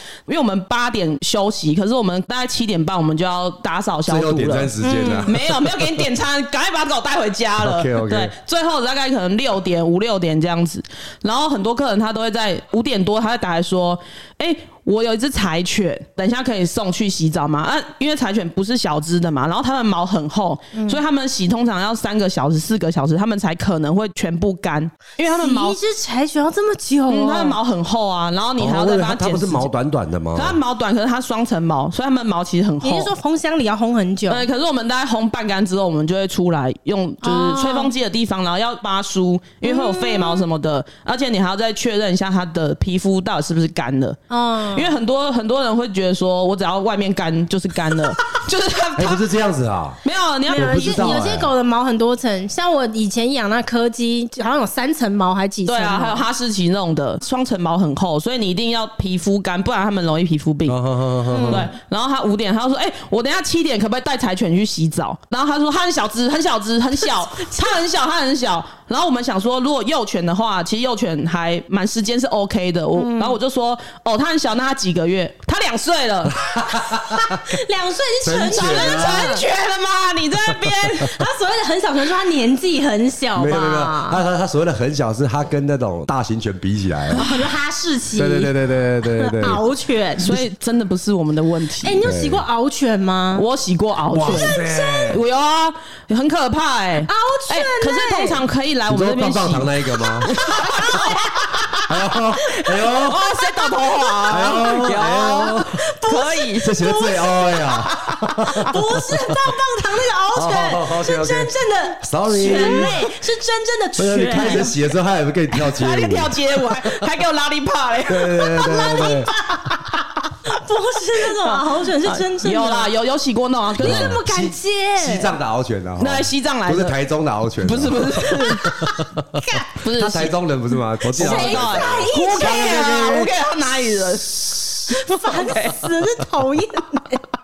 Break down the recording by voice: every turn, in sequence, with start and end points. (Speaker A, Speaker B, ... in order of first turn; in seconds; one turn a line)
Speaker A: 0.3-25.8
Speaker B: 4.1-6.0
Speaker C: 4.8-5.3
Speaker B: 7.6-8.3
Speaker C: 20.7-21.0
Speaker C: 25.3-27.6
Speaker A: 27.1-29.7
Speaker B: 28.6-30.6
Speaker A: 30.3-33.1
Speaker C: 32.8-34.5
Speaker A: 34.3-44.2
Speaker C: 37.2-37.9
Speaker C: 39.6-40.5
Speaker C: 44.3-44.9
Speaker A: 44.7-49.2
Speaker B: 49.0-51.5
Speaker A: 50.0-51.2
Speaker C: 50.5-56.2
Speaker A: 55.6-60.8
Speaker B: 60.7-61.7
Speaker C: 61.3-61.7
Speaker A: 61.5-76.4
Speaker C: 73.0-73.4
Speaker B: 76.3-77.5
Speaker C: 77.1-79.4
Speaker B: 78.2-79.4
Speaker A: 78.5-81.2
Speaker B: 80.5-80.9
Speaker C: 81.1-84.2
Speaker B: 83.3-87.2
Speaker C: 87.1-88.5
Speaker B: 88.2-89.6
Speaker C: 89.1-90.3
Speaker A: 90.2-92.0
Speaker C: 91.8-93.4
Speaker B: 92.0-92.4
Speaker A: 93.3-99.7
Speaker B: 94.1-95.2
Speaker C: 94.2-94.6
Speaker C: 97.1-98.4
Speaker B: 98.9-100.3
Speaker A: 100.2-101.8
Speaker C: 100.3-101.7
Speaker B: 101.9-103.2
Speaker A: 102.7-106.7
Speaker B: 104.3-105.8
Speaker C: 105.6-114.7
Speaker B: 106.6-109.5
Speaker B: 110.3-113.0
Speaker A: 112.5-112.9
Speaker B: 114.0-116.4
Speaker A: 114.3-114.6
Speaker A: 115.5-118.6
Speaker B: 118.1-119.3
Speaker C: 118.5-119.8
Speaker C: 120.4-122.9
Speaker A: 121.4-124.2
Speaker C: 123.8-125.3
Speaker B: 123.8-133.3
Speaker A: 126.0-127.0
Speaker A: 127.6-128.7
Speaker C: 129.4-129.7
Speaker A: 129.8-130.3
Speaker A: 131.1-135.8
Speaker C: 131.2-133.0
Speaker C: 134.9-137.2